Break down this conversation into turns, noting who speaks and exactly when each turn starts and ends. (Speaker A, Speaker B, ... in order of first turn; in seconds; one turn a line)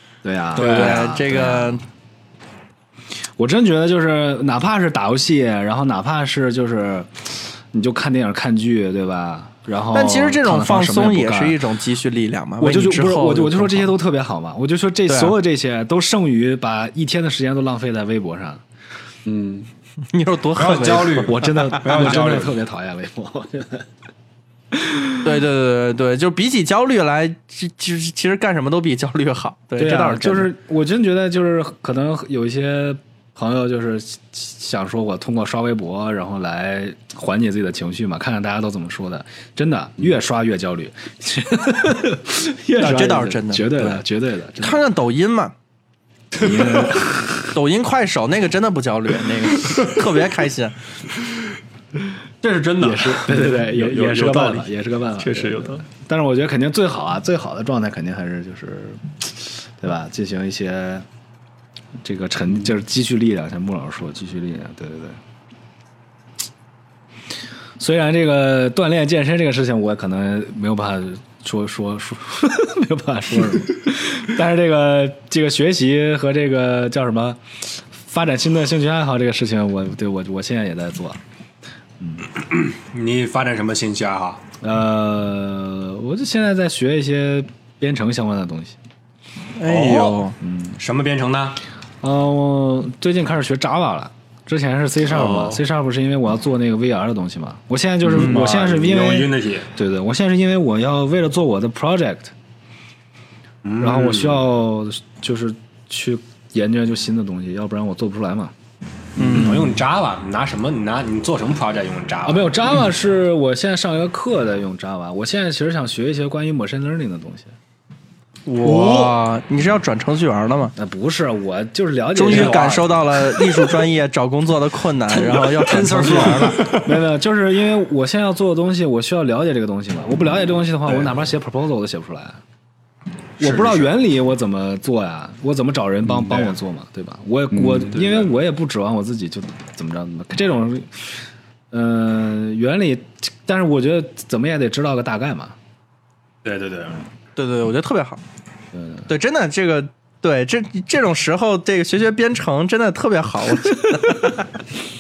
Speaker A: 0.2-1.8
Speaker B: 0.6-1.1
Speaker C: 0.6-1.8
Speaker A: 3.4-11.6
Speaker C: 9.9-13.9
Speaker A: 12.6-18.6
Speaker C: 15.1-15.4
Speaker D: 19.3-19.7
Speaker C: 20.1-21.9
Speaker B: 20.6-22.6
Speaker A: 21.2-23.9
Speaker A: 24.7-25.3
Speaker C: 25.2-30.5
Speaker A: 29.8-44.9
Speaker C: 42.8-44.0
Speaker C: 44.6-45.5
Speaker A: 46.3-47.4
Speaker C: 47.5-50.8
Speaker B: 52.4-54.4
Speaker A: 52.8-61.1
Speaker D: 53.3-54.6
Speaker D: 55.2-55.8
Speaker A: 62.0-65.2
Speaker A: 67.8-81.2
Speaker A: 82.0-82.3
Speaker B: 82.5-84.4
Speaker A: 84.6-88.8
Speaker C: 89.6-90.4
Speaker B: 89.6-90.3
Speaker A: 90.4-90.8
Speaker B: 90.8-91.6
Speaker A: 92.0-102.3
Speaker B: 95.1-95.6
Speaker B: 98.1-99.7
Speaker B: 103.7-104.4
Speaker A: 103.8-108.5
Speaker C: 109.2-109.5
Speaker A: 109.2-109.7
Speaker B: 109.3-112.5
Speaker A: 112.2-117.5
Speaker C: 118.5-120.7
Speaker B: 118.8-119.1
Speaker A: 120.8-122.9
Speaker C: 122.2-126.6
Speaker B: 122.3-122.8
Speaker B: 125.1-127.0
Speaker A: 126.7-132.4
Speaker B: 130.9-131.1
Speaker B: 133.4-133.9
Speaker A: 133.4-145.6
Speaker D: 137.5-137.9
Speaker B: 137.9-138.3
Speaker B: 146.4-147.0
Speaker C: 147.4-148.2
Speaker A: 148.7-149.1
Speaker C: 149.1-154.4